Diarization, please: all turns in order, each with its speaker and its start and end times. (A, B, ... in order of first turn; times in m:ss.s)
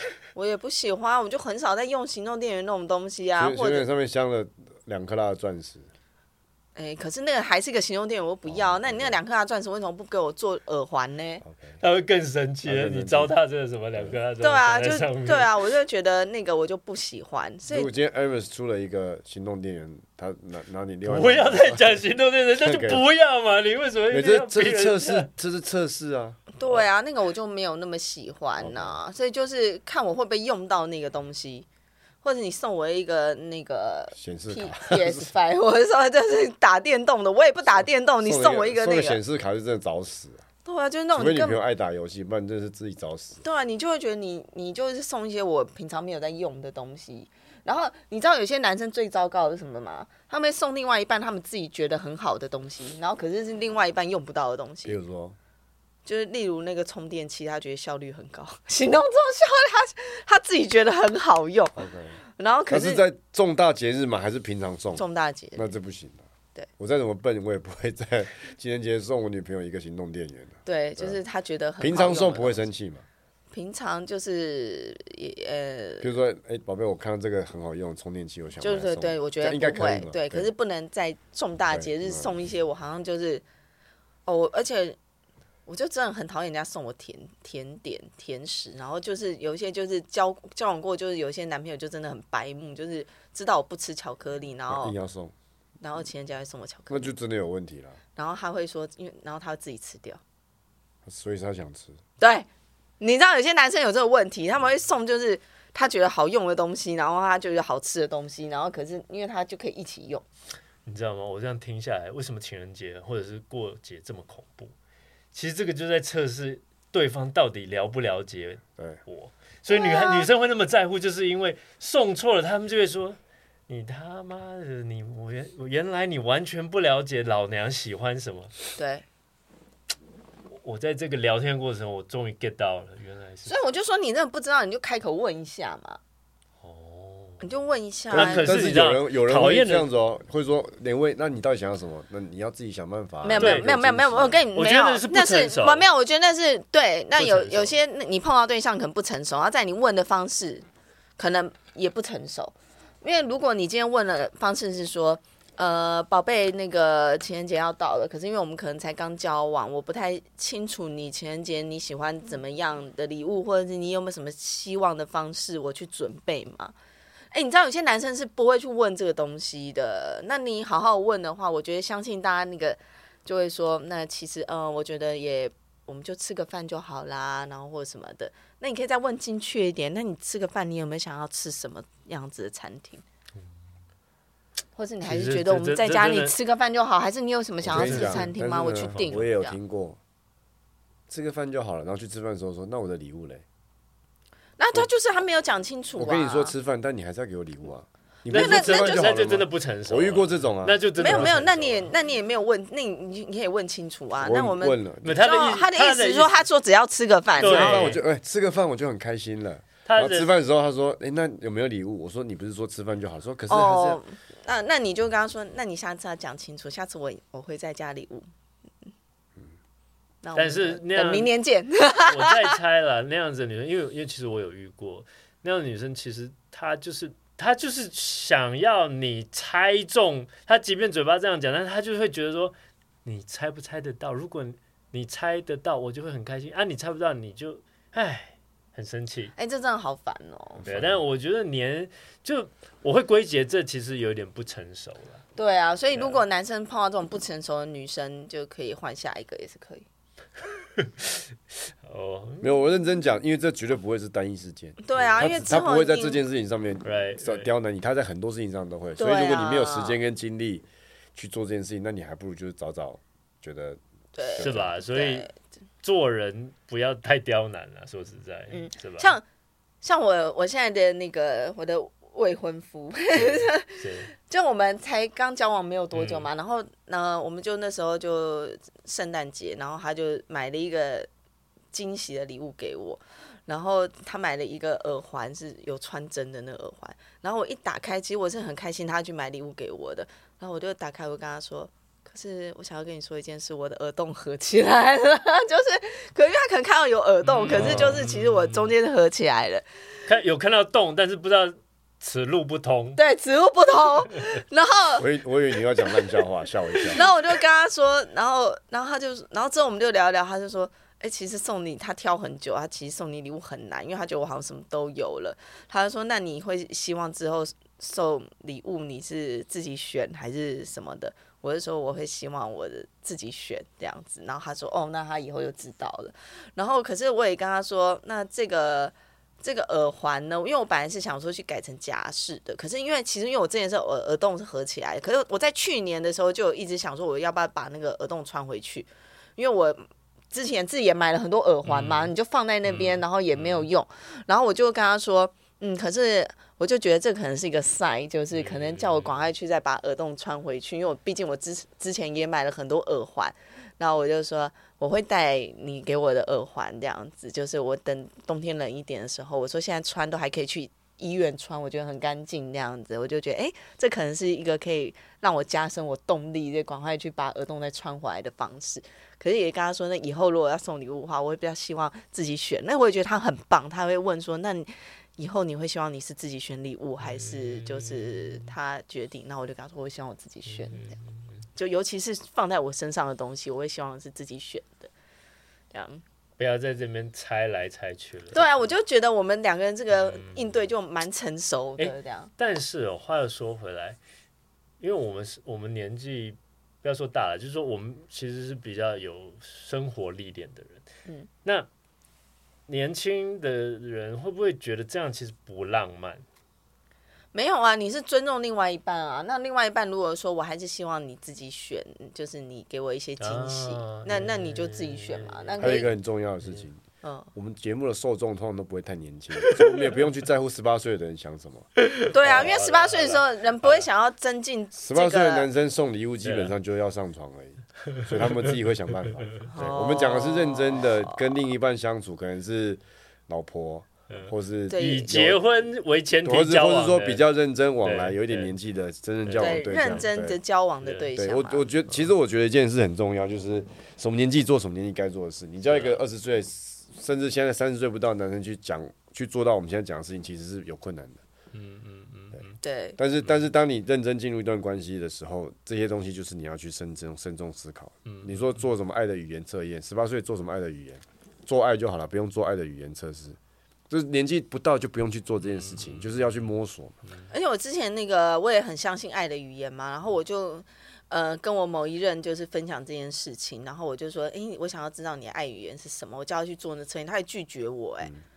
0:00.3-0:03.9 A
0:03.4-0:05.9 B
0:06.8-0:11.4 A
0:08.5-0:09.2 B
0:11.4-0:11.8 B
0:11.8-0:15.5 C
0:12.6-0:13.4 B
0:14.4-0:17.9 A
0:17.7-0:23.0 B
0:21.0-0:25.3 C
0:24.1-0:26.8 B
0:26.6-0:31.6 A
0:28.6-0:29.0 B
0:32.2-0:39.2 A
0:34.1-0:35.3 B
0:38.2-0:40.4 B
0:40.6-0:41.6 A
0:41.1-0:43.4 B
0:43.4-0:55.0 A
0:54.9-0:55.4 B
0:56.1-1:01.8 A
1:01.8-1:05.0 B
1:02.4-1:03.0 A
1:04.9-1:05.7 A
1:05.6-1:06.3 B
1:06.8-1:11.2 B
1:10.6-1:12.6 A
1:11.8-1:13.0 B
1:13.5-1:16.1 A
1:16.0-1:20.5 B
1:18.6-1:23.4 A
1:21.7-1:22.4 B
1:24.3-1:25.0 A
1:25.7-1:35.0 A
1:34.7-1:35.3 B
1:35.8-1:37.1 A
1:36.9-1:38.0 B
1:38.2-1:40.2 A
1:41.1-1:42.0 B
1:42.2-1:42.5 A
1:43.0-1:50.2 A
1:50.8-1:54.7 C
1:55.3-2:08.5 C
1:59.7-2:00.3 A
2:08.8-2:09.0 A
2:10.6-2:13.6 C
2:13.5-2:16.0 A
2:16.6-2:17.4 C
2:17.4-2:18.5 A
2:18.1-2:24.4 B
2:18.1-2:19.9 C
2:23.2-2:30.6 A
2:23.4-2:23.7 C
2:24.5-2:25.9 C
2:27.2-2:27.7 B
2:31.2-2:46.7 A
2:47.3-3:03.0 A
3:04.8-3:09.6 A
3:05.0-3:06.4 C
3:07.6-3:10.0 B
3:07.7-3:09.2 C
3:11.1-3:13.4 B
3:14.6-3:16.5 A
3:16.0-3:21.9 B
3:18.3-3:19.1 A
3:18.3-3:21.7 C
3:21.0-3:27.9 A
3:24.2-3:25.2 B
3:25.0-3:26.4 C
3:27.4-3:28.0 C
3:27.4-3:34.0 B
3:29.9-3:30.3 C
3:33.5-3:38.3 A
3:40.2-3:42.6 A
3:40.4-3:41.3 C
3:42.1-3:59.3 C
3:59.4-4:00.6 A
4:00.6-4:01.0 B
4:00.6-4:05.2 C
4:05.4-4:09.9 A
4:06.0-4:06.2 C
4:10.8-4:11.2 C
4:11.8-4:12.5 C
4:12.4-4:23.8 B
4:14.8-4:16.2 A
4:15.0-4:15.4 C
4:16.8-4:17.5 C
4:19.0-4:20.0 A
4:24.2-4:25.3 A
4:24.3-4:24.7 B
4:24.4-4:25.3 C
4:25.8-4:29.1 C
4:28.5-4:29.2 A
4:29.8-4:41.1 A
4:33.2-4:34.1 C
4:35.9-4:36.3 C
4:41.7-4:59.6 A
4:57.2-4:58.7 C
4:57.5-4:58.0 B
5:00.1-5:03.0 C
5:03.0-5:05.0 A
5:05.0-5:07.0 B
5:06.9-6:21.0 A
5:41.6-5:42.1 C
5:42.6-5:43.7 C
5:48.3-5:49.1 C
6:17.1-6:18.5 C
6:20.5-6:21.4 C
6:21.6-6:24.9 A
6:25.7-6:26.0 A
6:26.4-6:28.6 C
6:28.3-6:32.3 A
6:29.9-6:30.4 C
6:31.8-6:34.0 C
6:34.8-6:40.8 C
6:42.7-6:46.2 C
6:47.3-6:55.9 A
6:53.2-6:55.9 C
6:55.6-6:56.8 B
6:57.0-6:57.3 A
6:57.4-7:01.7 B
7:01.8-7:03.9 C
7:02.1-7:05.5 A
7:04.8-7:15.4 B
7:06.2-7:06.5 C
7:07.9-7:08.5 C
7:09.2-7:09.4 C
7:09.5-7:11.4 A
7:14.1-7:17.2 C
7:14.7-7:15.1 A
7:16.2-7:20.4 B
7:17.8-7:18.5 C
7:19.2-7:20.0 C
7:19.4-7:21.6 A
7:21.1-7:31.2 B
7:25.7-7:26.0 C
7:31.5-7:32.6 C
7:32.6-7:33.0 A
7:33.0-7:43.4 B
7:38.0-7:38.4 C
7:43.9-7:47.0 B
7:45.5-7:46.4 C
7:47.3-7:58.1 A